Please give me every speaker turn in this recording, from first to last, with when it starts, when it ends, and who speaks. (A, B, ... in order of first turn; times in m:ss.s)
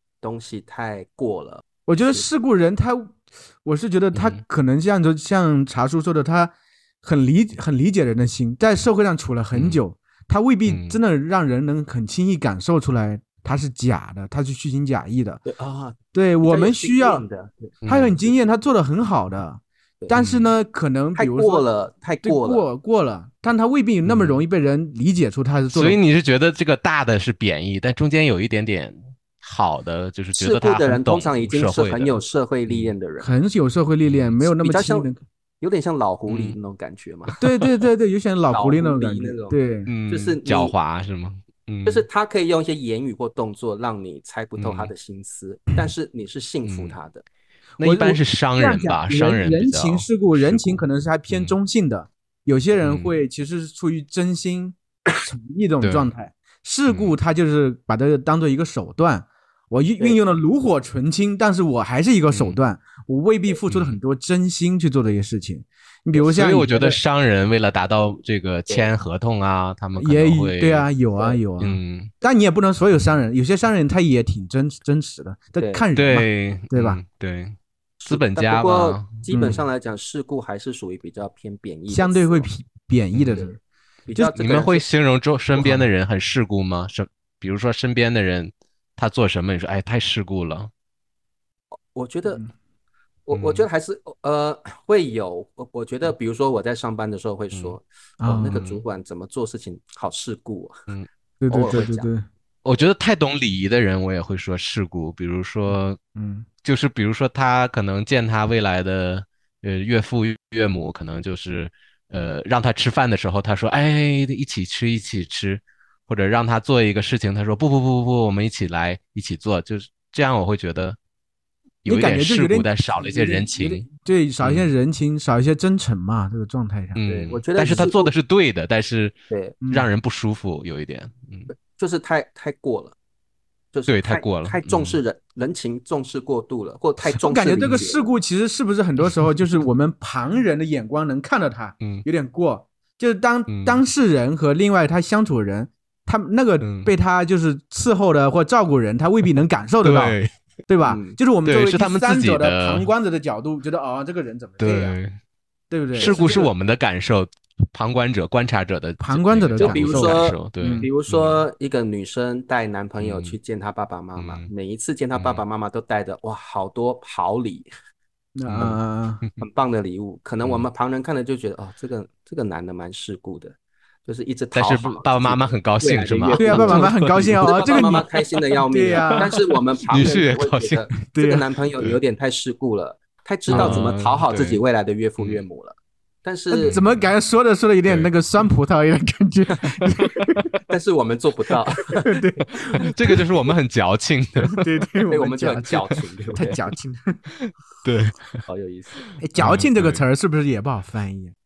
0:00.2-0:02.3 A
0:01.9-0:15.4 B
0:04.1-0:04.4 C
0:09.5-0:09.8 C
0:10.7-0:11.0 C
0:15.4-0:17.8 A
0:16.1-0:17.2 B
0:17.8-0:18.2 C
0:17.9-0:21.7 B
0:20.1-0:20.5 C
0:21.2-0:22.6 A
0:22.2-0:26.0 B
0:24.0-0:24.4 C
0:25.7-0:32.9 C
0:30.4-0:33.3 A
0:33.2-0:35.2 B
0:34.0-0:34.4 C
0:34.6-0:35.1 A
0:35.6-0:37.4 A
0:36.3-0:36.6 C
0:37.4-0:39.9 B
0:38.5-0:39.6 A
0:39.9-0:42.0 C
0:40.1-0:40.7 A
0:41.9-0:47.2 A
0:44.6-0:44.9 C
0:46.6-0:47.0 C
0:47.8-0:51.6 C
0:47.8-1:07.0 B
0:52.8-0:53.2 C
0:55.8-0:56.1 C
0:56.9-0:57.1 C
1:02.3-1:02.6 C
1:03.7-1:04.0 C
1:06.1-1:10.9 C
1:10.0-1:17.0 B
1:11.2-1:11.4 A
1:11.6-1:12.1 C
1:15.6-1:15.9 A
1:16.0-1:19.2 C
1:18.0-1:22.5 A
1:19.3-1:19.6 B
1:21.9-1:23.6 B
1:23.1-1:23.4 C
1:24.1-1:24.9 A
1:24.4-1:30.7 C
1:25.6-1:25.9 B
1:31.9-1:32.4 A
1:33.3-1:40.8 A
1:33.3-1:33.7 C
1:37.5-1:37.8 C
1:38.2-1:38.7 B
1:41.4-1:42.3 B
1:41.5-1:42.1 A
1:42.6-1:46.0 C
1:45.7-1:46.4 B
1:46.6-2:01.0 C
2:01.8-2:03.9 C
2:01.9-2:07.0 B
2:04.4-2:04.7 C
2:07.0-2:09.1 C
2:07.1-2:08.1 A
2:09.3-2:09.6 A
2:09.6-2:09.9 B
2:09.7-2:11.5 C
2:11.6-2:13.0 A
2:13.7-2:18.0 A
2:13.9-2:15.0 C
2:17.0-2:35.0 B
2:21.8-2:22.0 C
2:23.5-2:23.8 C
2:26.6-2:26.9 C
2:29.8-2:30.3 C
2:30.8-2:31.2 A
2:31.4-2:32.9 C
2:34.6-2:35.2 C
2:35.7-2:36.4 B
2:36.0-2:41.4 C
2:36.0-2:36.5 A
2:39.0-2:40.9 B
2:39.6-2:47.7 A
2:43.0-2:43.4 C
2:44.2-2:44.5 C
2:45.1-2:45.4 C
2:48.4-2:49.2 B
2:48.5-2:49.4 C
2:49.4-3:06.8 A
2:50.4-2:50.7 C
2:54.6-2:58.2 C
2:56.4-2:58.1 B
2:58.7-2:59.3 B
2:59.9-3:00.8 C
3:01.1-3:01.4 B
3:03.5-3:03.8 B
3:03.5-3:04.6 C
3:05.2-3:05.4 C
3:06.5-3:10.6 B
3:06.6-3:07.1 C
3:10.7-3:12.3 A
3:12.0-3:13.2 B
3:12.9-3:14.6 C
3:14.5-3:17.2 B
3:15.1-3:16.6 A
3:17.3-3:18.4 C
3:18.4-3:19.0 A
3:19.2-3:21.3 B
3:19.4-3:20.0 C